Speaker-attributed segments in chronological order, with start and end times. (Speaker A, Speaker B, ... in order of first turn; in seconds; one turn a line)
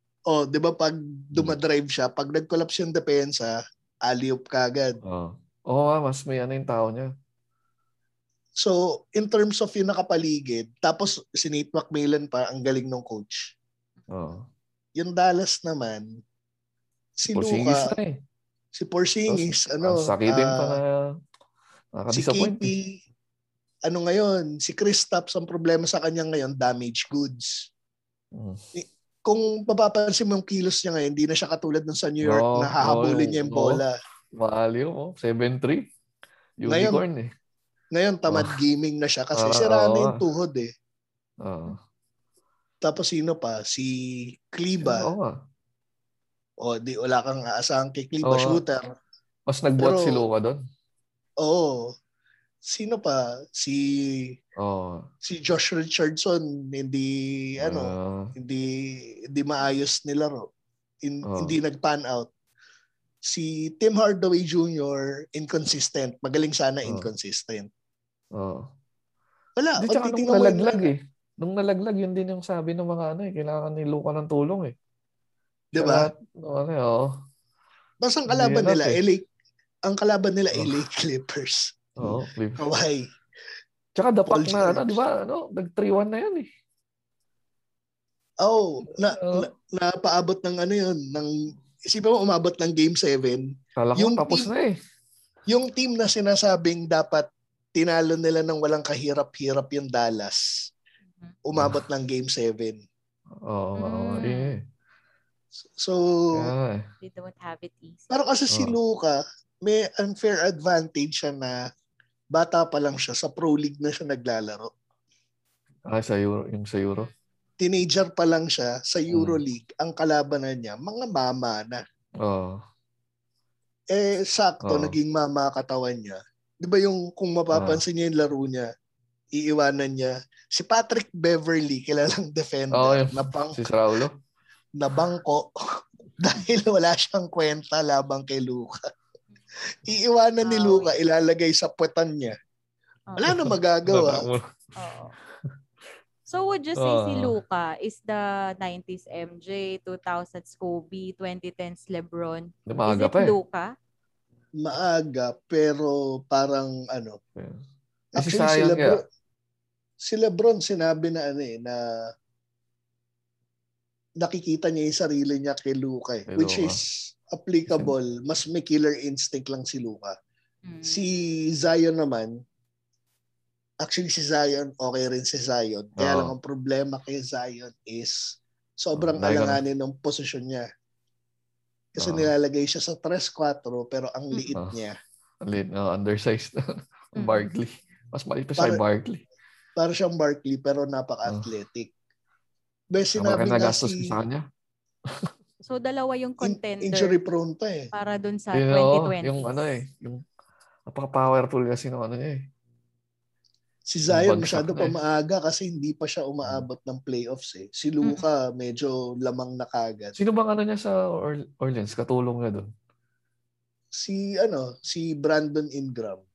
Speaker A: 0.3-5.0
Speaker B: 5.0-7.1
Speaker A: 8.6-13.5
Speaker B: 14.1-14.5
Speaker A: 15.0-16.2
Speaker A: 17.2-17.9
Speaker B: 17.3-18.2
Speaker A: 18.7-20.8
Speaker B: 19.3-21.1
Speaker B: 22.0-22.7
Speaker A: 22.1-23.0
Speaker A: 23.9-27.7
Speaker B: 28.4-28.6
Speaker A: 28.8-33.9
Speaker B: 32.2-33.8
Speaker B: 34.4-35.9
Speaker B: 36.6-37.3
Speaker A: 36.7-37.0
Speaker A: 37.9-40.7
Speaker B: 38.3-38.6
Speaker B: 39.4-40.2
Speaker B: 41.4-41.8
Speaker A: 42.8-45.1
Speaker B: 44.8-45.4
Speaker A: 46.6-48.8
Speaker B: 48.2-48.6
Speaker B: 49.5-50.6
Speaker A: 49.8-50.2
Speaker A: 51.4-51.9
Speaker A: 52.6-54.4
Speaker B: 54.6-55.1
Speaker A: 55.2-60.5
Speaker B: 57.6-58.3
Speaker A: 61.0-62.3
Speaker B: 61.3-61.5
Speaker A: 63.3-67.7
Speaker B: 68.4-68.7
Speaker A: 69.6-70.9
Speaker B: 69.8-74.7
Speaker A: 75.8-76.1
Speaker B: 75.8-77.2
Speaker A: 78.0-79.2
Speaker B: 78.3-79.0
Speaker A: 79.9-83.0
Speaker B: 82.0-82.7
Speaker B: 84.0-86.5
Speaker A: 84.3-85.0
Speaker A: 88.4-94.5
Speaker B: 88.8-89.5
Speaker B: 93.8-94.8
Speaker A: 95.5-100.7
Speaker A: 101.5-102.8
Speaker B: 101.5-101.8
Speaker B: 103.4-104.6
Speaker C: 103.8-104.5
Speaker A: 105.7-106.5
Speaker B: 106.3-106.9
Speaker C: 107.0-108.1
Speaker A: 108.1-111.6
Speaker B: 108.5-108.8
Speaker A: 112.3-114.7
Speaker B: 115.9-117.1
Speaker A: 117.6-121.8
Speaker B: 119.1-119.4
Speaker B: 122.2-122.6
Speaker A: 123.9-128.7
Speaker B: 124.6-125.0
Speaker B: 127.5-127.8
Speaker A: 129.3-133.6
Speaker B: 132.7-134.2
Speaker A: 134.8-138.8
Speaker A: 139.8-142.3
Speaker C: 140.4-140.9
Speaker A: 143.2-144.2
Speaker B: 143.2-144.5
Speaker C: 144.8-145.1
Speaker C: 146.3-153.7
Speaker B: 146.8-147.4
Speaker B: 152.7-153.4
Speaker A: 154.6-157.2
Speaker B: 157.4-157.6
Speaker B: 158.2-159.0
Speaker A: 158.2-159.0
Speaker A: 160.0-161.8
Speaker A: 164.2-170.1
Speaker B: 166.3-166.8
Speaker C: 170.7-171.3
Speaker A: 170.8-172.4
Speaker A: 173.8-180.7
Speaker B: 176.0-176.3
Speaker B: 179.0-179.6
Speaker A: 181.9-185.0
Speaker B: 182.0-182.3
Speaker B: 185.4-189.2
Speaker C: 187.2-187.6
Speaker A: 189.8-191.9
Speaker A: 192.9-194.2
Speaker B: 193.2-194.4
Speaker C: 195.7-197.2
Speaker A: 196.4-197.9
Speaker C: 197.9-199.4
Speaker B: 198.5-200.2
Speaker B: 200.9-202.4
Speaker A: 203.9-210.2
Speaker B: 204.1-204.9
Speaker B: 210.2-212.7
Speaker A: 213.9-216.2